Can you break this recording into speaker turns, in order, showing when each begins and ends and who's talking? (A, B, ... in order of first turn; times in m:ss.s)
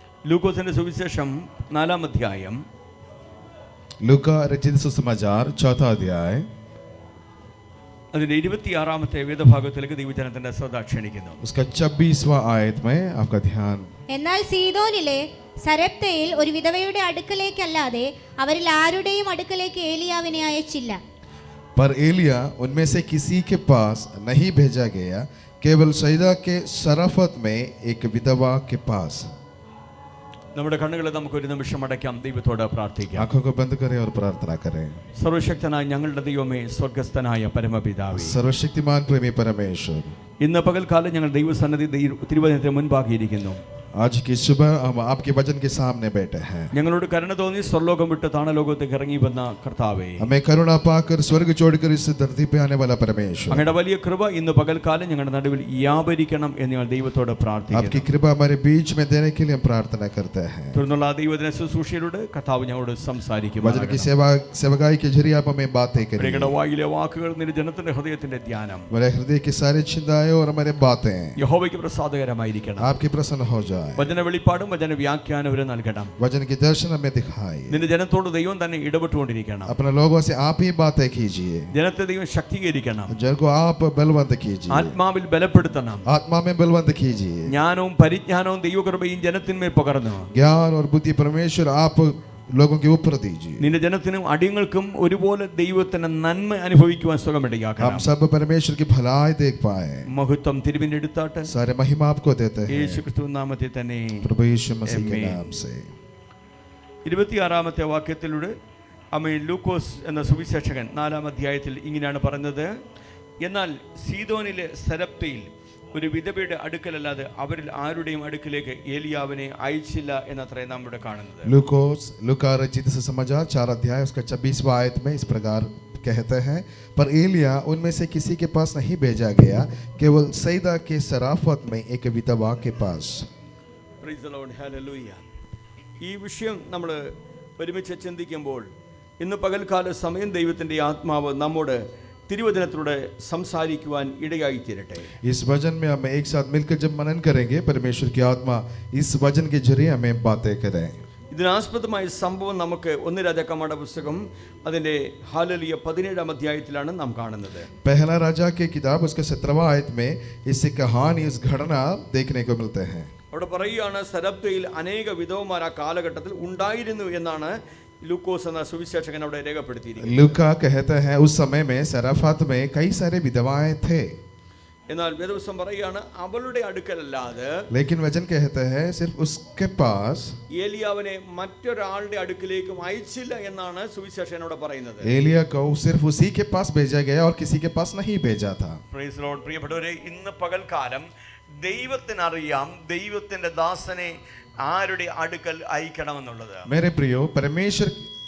0:00.3-0:02.6 A
0:04.0-0:06.5 B
0:08.1-0:11.4 A
0:11.4-0:13.9 B
0:14.1-0:21.0 C
0:21.8-0:29.3 B
0:30.6-0:33.3 A
0:33.1-0:35.0 B
0:35.2-0:38.4 A
0:38.1-0:40.1 B
0:40.4-0:43.6 A
0:43.9-0:46.7 B
0:46.7-0:50.2 A
0:50.2-0:53.6 B
0:53.5-0:58.0 A
0:57.7-1:00.8 B
1:00.7-1:04.1 A
1:03.6-1:06.5 B
1:06.2-1:08.9 A
1:08.9-1:11.4 B
1:11.4-1:12.9 A
1:12.8-1:14.0 B
1:14.0-1:16.1 A
1:16.2-1:17.8 B
1:17.7-1:19.7 A
1:19.7-1:21.7 B
1:21.7-1:23.2 A
1:23.1-1:25.0 B
1:24.7-1:26.0 A
1:26.0-1:27.5 B
1:27.5-1:30.3 A
1:30.3-1:33.6 B
1:33.6-1:38.1 A
1:37.8-1:40.1 B
1:40.1-1:41.5 A
1:41.5-1:43.0 B
1:42.7-1:44.3 A
1:44.2-1:45.9 B
1:44.8-1:45.4 A
1:47.0-1:48.5 A
1:49.1-1:52.7 A
1:53.4-2:01.5 A
2:01.4-2:13.3 B
2:14.0-2:15.2 A
2:16.0-2:18.7 A
2:19.2-2:25.1 A
2:25.2-2:31.0 B
2:31.3-2:37.7 A
2:37.8-2:43.1 B
2:43.3-2:50.4 A
2:50.0-2:54.2 B
2:54.9-2:57.7 A
2:57.7-3:00.4 B
3:00.5-3:05.1 A
3:05.0-3:08.8 B
3:08.9-3:11.1 A
3:11.6-3:16.7 A
3:16.7-3:18.0 B